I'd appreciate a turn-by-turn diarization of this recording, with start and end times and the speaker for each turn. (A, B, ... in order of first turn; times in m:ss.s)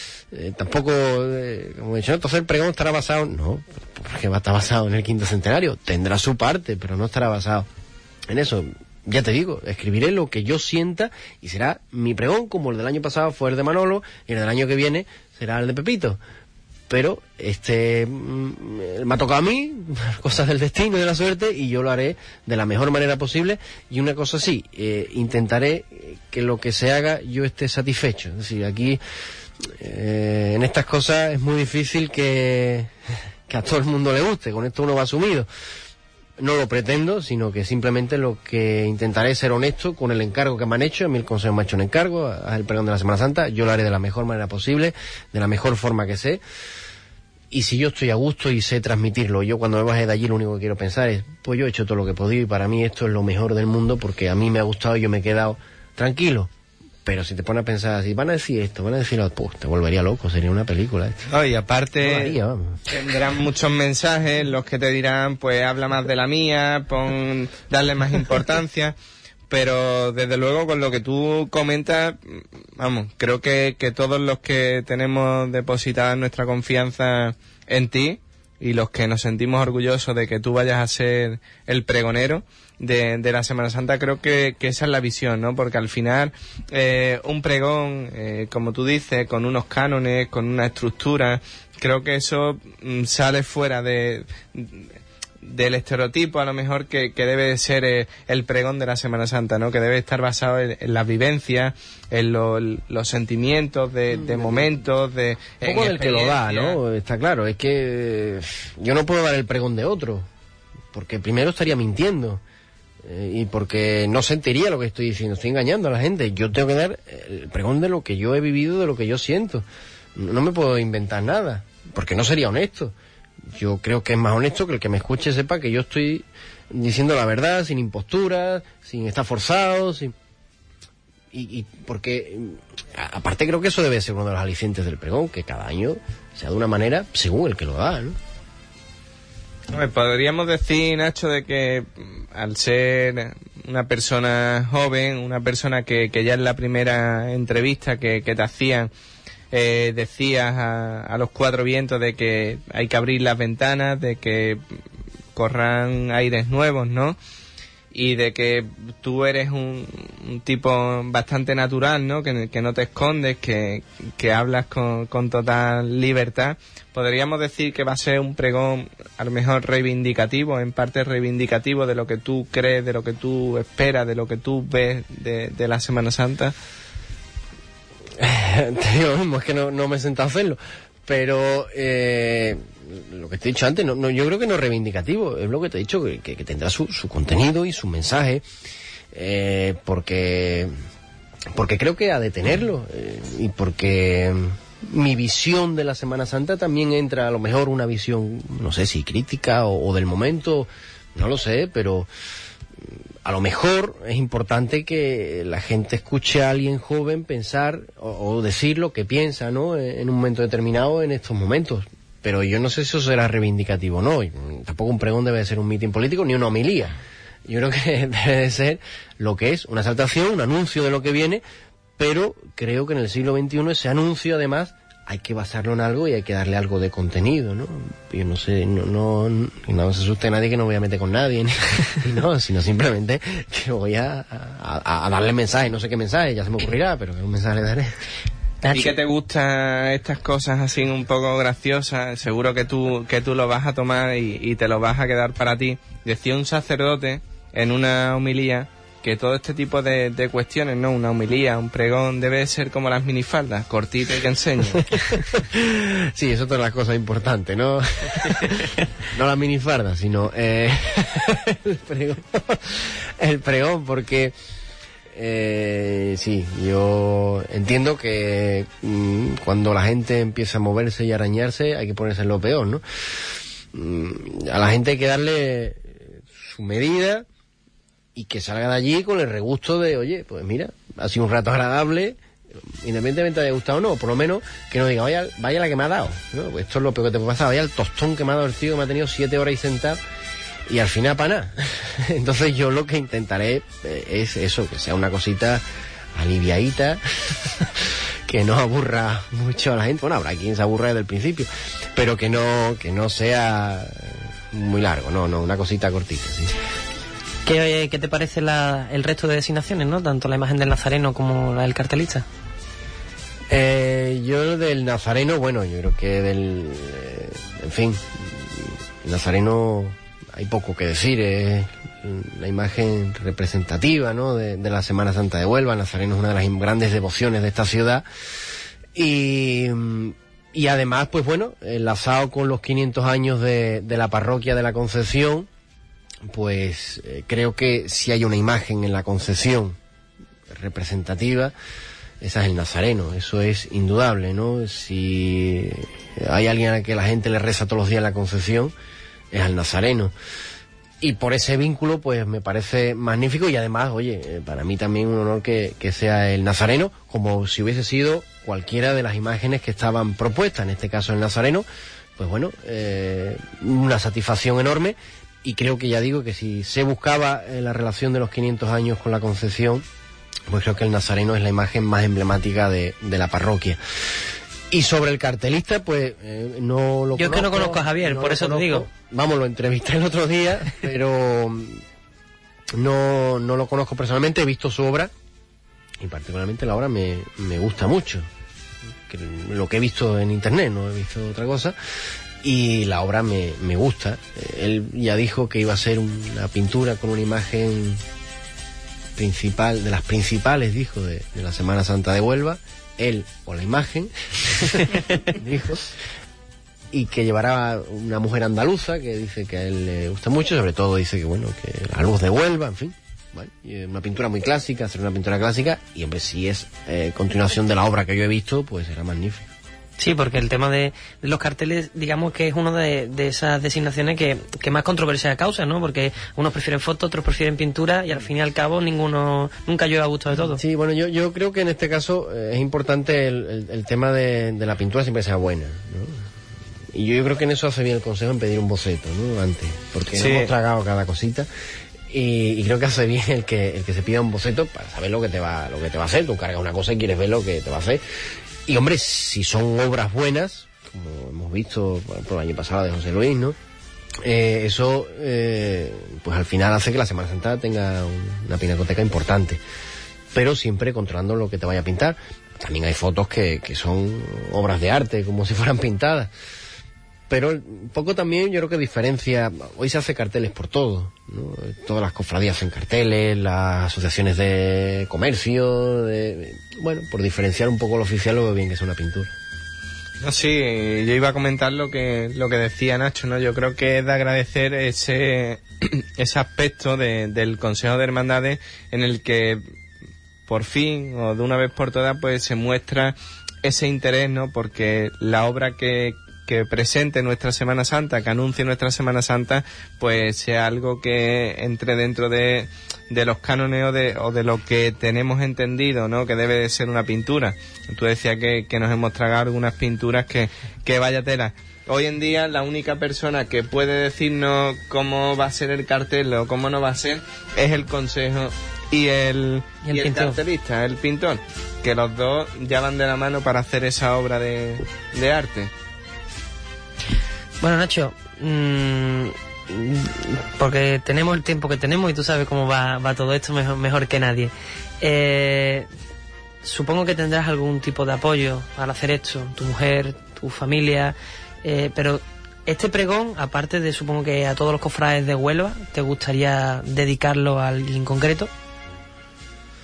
0:00.3-0:07.7 A
0:08.3-0:16.2 A
0:16.9-0:29.0 A
0:29.6-0:32.9 A
0:33.5-0:35.5 A
0:36.4-0:46.4 A
0:47.5-0:56.5 A
0:57.0-1:01.3 A
1:01.3-1:02.4 B
1:02.0-1:02.8 A
1:02.9-1:08.9 B
1:09.5-1:34.9 B
1:35.4-1:46.8 B
1:44.1-1:44.7 A
1:45.6-1:50.3 A
1:50.9-1:52.4 A
1:53.0-2:02.9 A
2:03.5-2:10.1 A
2:11.3-2:18.2 A
2:19.7-2:28.9 B
2:29.5-2:34.6 B
2:35.3-2:37.2 B
2:37.9-2:56.5 B
2:58.2-3:08.4 A
3:09.1-3:10.7 A
3:11.5-3:22.1 A
3:23.2-3:41.4 A
3:42.0-3:57.9 A
3:58.6-3:58.9 C
3:58.7-4:15.3 B
4:14.8-4:24.3 A
4:25.1-4:37.2 A
4:38.1-4:42.2 A
4:42.8-4:50.0 A
4:50.7-5:06.5 A
5:07.4-5:12.2 C
5:13.5-5:28.0 A
5:28.9-5:35.5 A
5:36.2-5:39.8 A
5:40.5-5:41.5 A
5:42.2-5:48.7 A
5:49.3-5:50.1 A
5:51.0-6:09.8 A
6:10.5-6:13.8 A
6:14.7-6:21.8 A
6:17.2-6:18.9 C
6:22.7-6:25.1 A
6:26.0-6:28.3 A
6:29.1-6:31.8 A
6:32.4-6:38.0 A
6:39.2-6:46.0 A
6:46.9-6:59.5 A
7:00.0-7:10.6 C
7:10.4-7:16.2 A
7:16.9-7:21.5 A
7:20.1-7:20.5 B
7:22.1-7:28.0 A
7:28.7-7:33.6 A
7:34.2-7:39.6 A
7:40.3-7:46.3 A
7:47.3-7:59.3 A
8:00.2-8:09.6 B
8:10.5-8:45.7 B
8:39.8-8:40.4 C
8:47.6-8:55.9 C
8:56.6-9:08.5 C